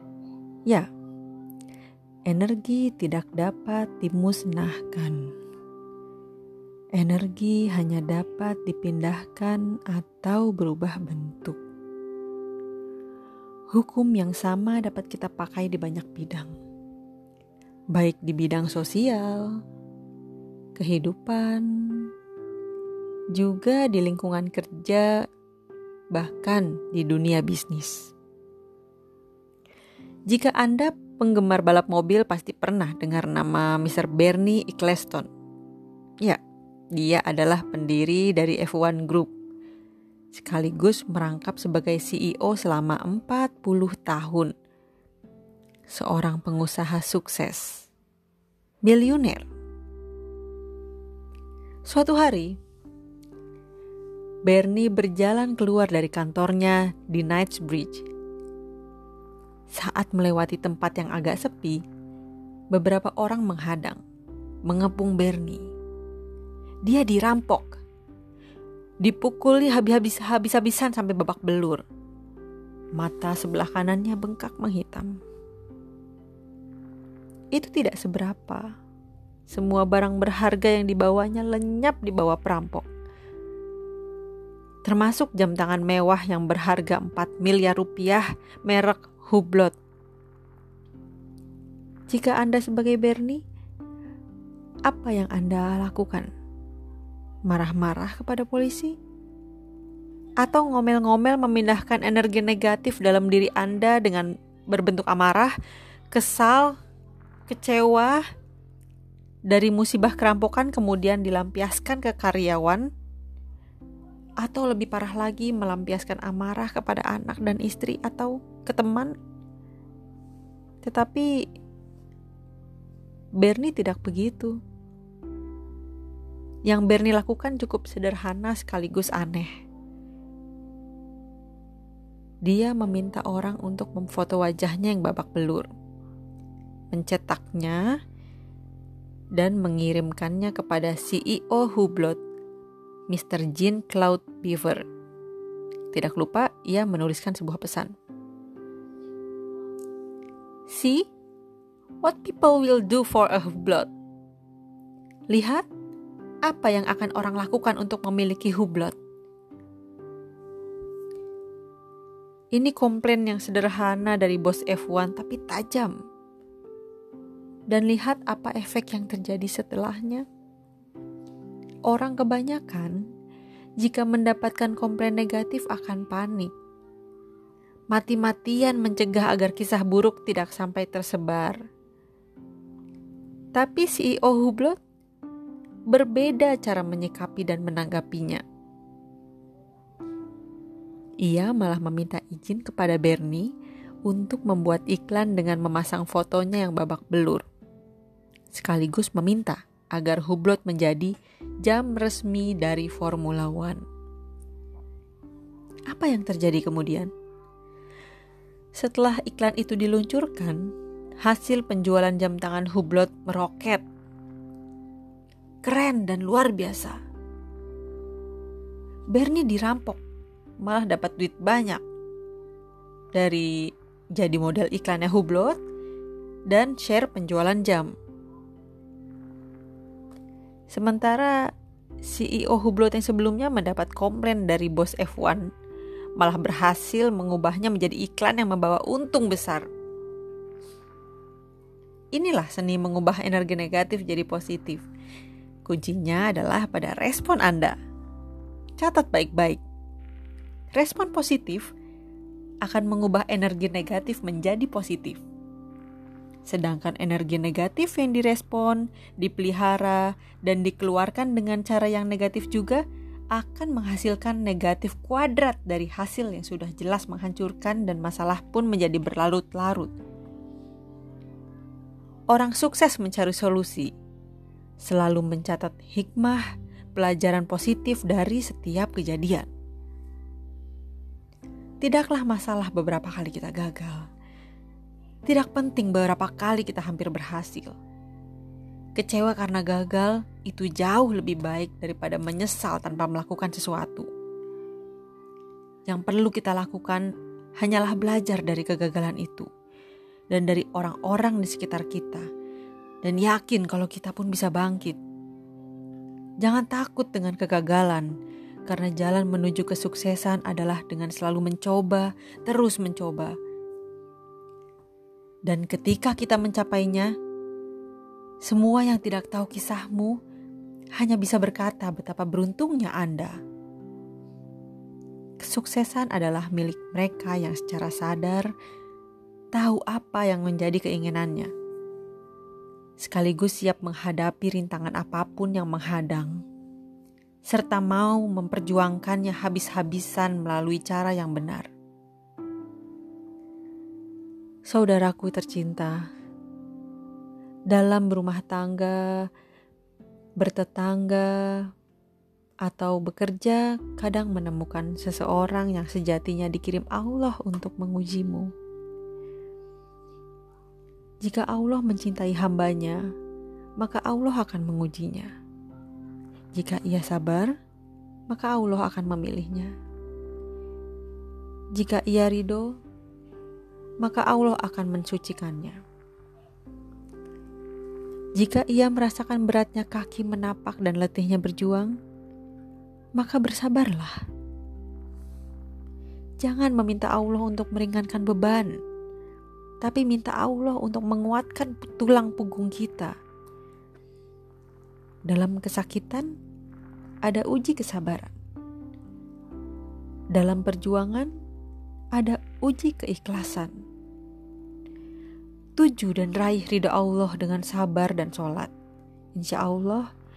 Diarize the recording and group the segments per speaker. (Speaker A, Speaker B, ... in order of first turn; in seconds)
Speaker A: 2.3-5.3, 7.0-11.6, 13.7-16.5, 17.9-19.6, 20.8-22.1, 23.3-25.3, 26.1-28.1, 30.3-35.3, 36.9-39.3, 40.3-44.5, 45.9-47.9, 48.9-49.5, 51.9-52.5, 54.5-58.1, 59.7-61.8, 62.7-64.0, 64.7-65.7, 66.9-67.8, 69.0-71.8, 73.0-75.2, 77.5-78.7, 79.5-82.9, 84.9-89.8, 92.1-93.4, 94.9-96.3, 97.5-99.0, 100.4-105.5, 106.1-106.8, 107.5-108.2, 109.5-112.9, 114.4-119.1, 120.8-121.3, 123.4-124.6, 126.7-129.5, 132.5-135.7, 136.9-137.9, 139.3-142.2, 143.1-144.8, 145.9-147.9, 150.7-151.1, 152.0-153.9, 155.3-155.7, 156.5-158.9, 162.5-165.9, 167.7-170.3, 171.9-173.0, 173.8-176.5, 177.9-181.6, 183.6-184.8, 185.9-188.4, 191.2-193.5, 194.1-197.4, 198.5-203.8, 205.9-207.1, 208.8-210.7, 211.2-213.8, 215.7-217.0, 219.1-220.0, 220.6-221.8, 223.1-225.6, 226.5-227.9, 230.7-231.4, 232.0-235.5, 236.2-239.7, 242.2-244.9, 245.7-247.8, 248.8-249.6, 250.7-251.7, 252.6-255.2, 256.5-262.8, 263.3-269.9, 272.3-273.9, 274.8-279.5, 281.8-284.1, 285.3-287.8, 289.0-294.1, 295.9-297.1, 297.6-299.5, 300.3-302.3, 303.0-305.0, 306.4-308.1, 308.7-313.4, 315.5-317.1, 318.4-320.2, 321.0-323.4, 325.4-328.5, 329.5-331.5, 333.0-336.4, 337.5-341.7, 344.7-346.1, 347.7-349.3, 350.4-351.7, 352.7-358.5, 361.2-363.0, 363.8-365.3, 366.6-367.5, 368.3-369.7, 371.8-372.8, 374.0-375.8, 378.4-381.9, 383.2-384.2, 386.4-388.8, 389.8-393.1, 395.3-396.3, 397.3-398.3, 400.4-401.3, 402.2-403.8, 405.8-408.7, 409.4-410.1